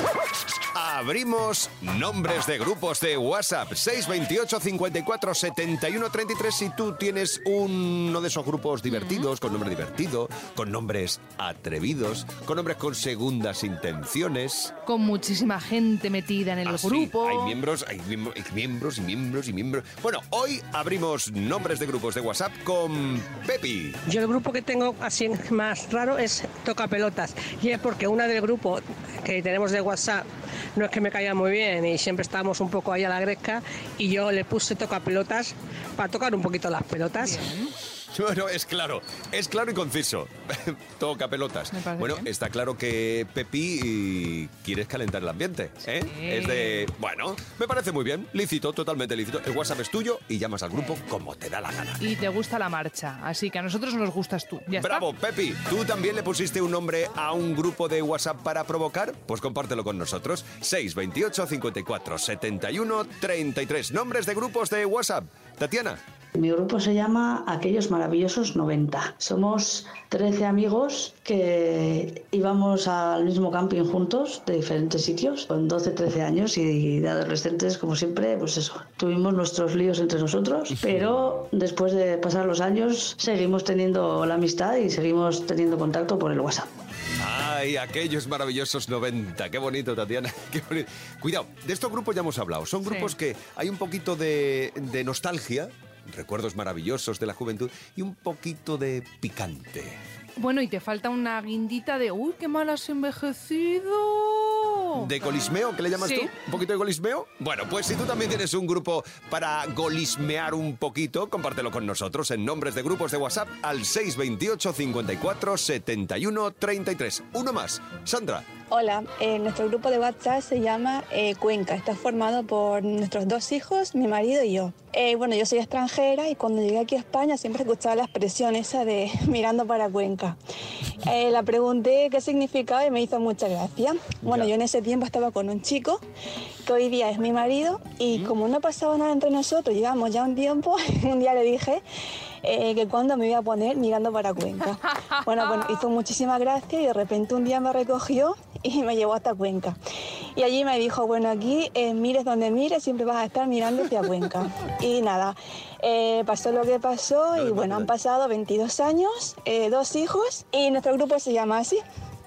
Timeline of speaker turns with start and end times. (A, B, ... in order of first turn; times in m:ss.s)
0:00.7-0:14.7 A
0:08.9-0:09.3 B
0:14.9-0:17.5 B
0:16.6-0:24.0 A
0:24.1-0:30.2 C
0:30.8-0:37.4 C
0:37.2-0:37.7 B
0:38.1-0:52.0 A
0:41.7-0:42.3 B
0:46.0-0:46.9 B
0:52.0-0:55.0 B
0:54.8-1:06.0 A
1:06.4-1:26.7 D
1:27.2-1:40.0 A
1:32.8-1:33.1 B
1:40.4-1:45.3 B
1:45.0-1:58.5 A
1:46.0-1:46.3 B
1:58.7-2:10.4 E
2:11.0-2:16.0 E
2:16.7-2:21.8 E
2:22.4-2:29.8 E
2:25.0-2:25.8 B
2:30.4-2:41.8 E
2:37.4-2:37.9 A